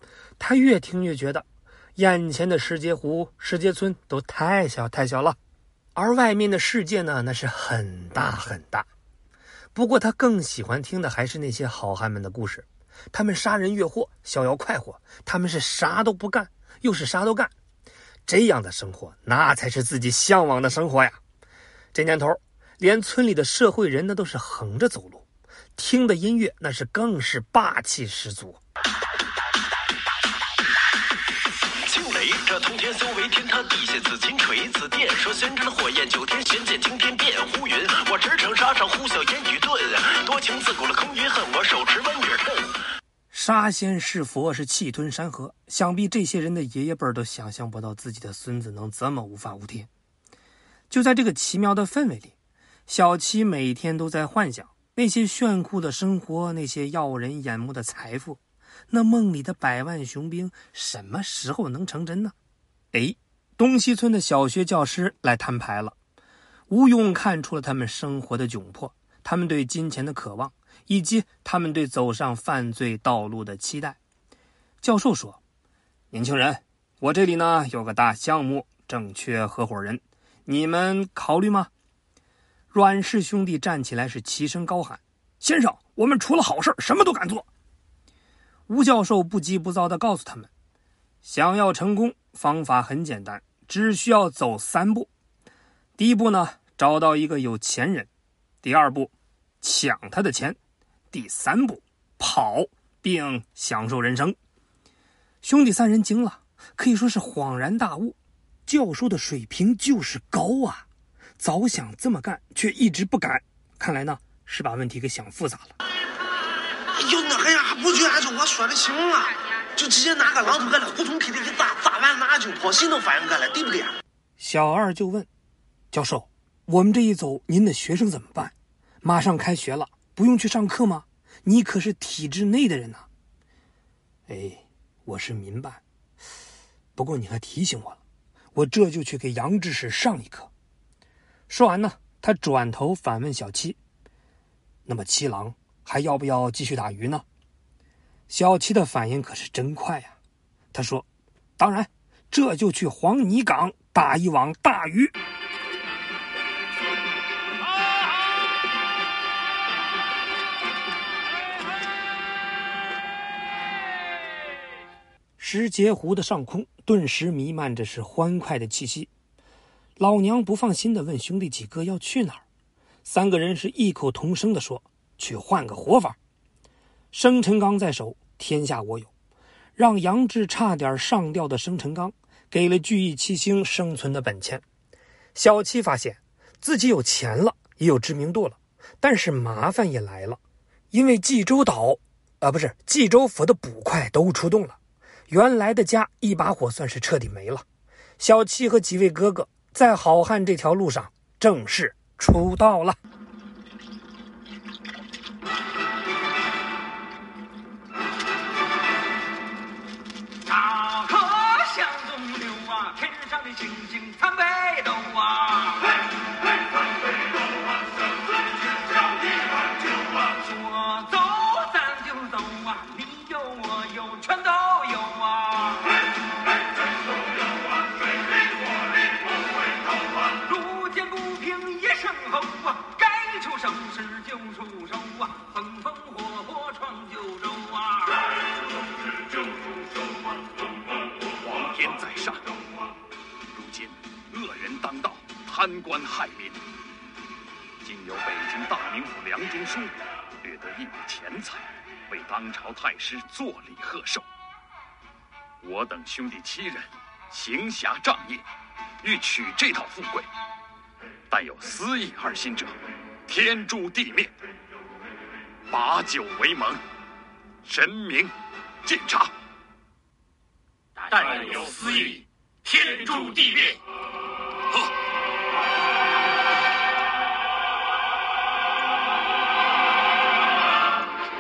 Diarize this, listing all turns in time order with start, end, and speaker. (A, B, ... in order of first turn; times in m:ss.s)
0:00.4-0:05.4 A
0:05.9-0:08.9 A
0:09.7-0:17.5 A
0:18.3-0:21.2 A
0:21.9-0:25.2 A
0:25.8-0:28.6 A
0:31.9-0:42.8 B
0:43.3-0:49.9 A
0:50.9-0:52.3 A
0:52.9-1:02.3 A
1:02.9-1:05.9 A
1:06.7-1:14.0 A
1:14.8-1:15.4 A
1:16.1-1:21.7 A
1:22.7-1:27.4 A
1:28.7-1:30.5 A
1:31.2-1:35.1 A
1:36.0-1:38.1 A
1:38.6-1:40.6 A
1:41.1-1:44.4 A
1:45.4-1:50.8 A
1:51.4-1:55.8 A
1:56.9-2:03.9 C
2:04.4-2:05.3 A
2:05.9-2:13.0 A
2:14.3-2:15.8 A
2:17.0-2:18.0 A
2:18.5-2:20.5 A
2:21.5-2:23.8 A
2:24.8-2:27.2 A
2:28.3-2:30.2 A
2:30.7-2:31.0 A
2:31.6-2:35.1 A
2:45.4-2:49.1 A
2:50.0-2:52.4 A
2:53.0-2:56.2 A
2:57.1-2:59.1 A
2:59.8-3:04.6 A
3:05.3-3:10.4 A
3:10.9-3:14.8 A
3:15.3-3:17.6 A
3:18.2-3:23.0 A
3:30.5-3:35.8 D
3:30.6-3:35.8 A
3:40.4-3:45.8 D
3:40.4-3:41.7 A
3:42.4-3:42.9 A
3:43.4-3:45.8 A
3:50.4-3:58.1 D
3:50.6-3:53.9 A
3:54.6-3:55.7 A
4:01.4-4:02.6 E
4:03.5-4:06.6 E
4:07.8-4:14.2 E
4:15.6-4:18.4 E
4:19.0-4:20.3 E
4:21.3-4:22.8 E
4:23.3-4:24.3 E
4:25.7-4:26.8 E
4:27.6-4:28.3 E
4:28.8-4:29.3 E
4:31.1-4:33.8 E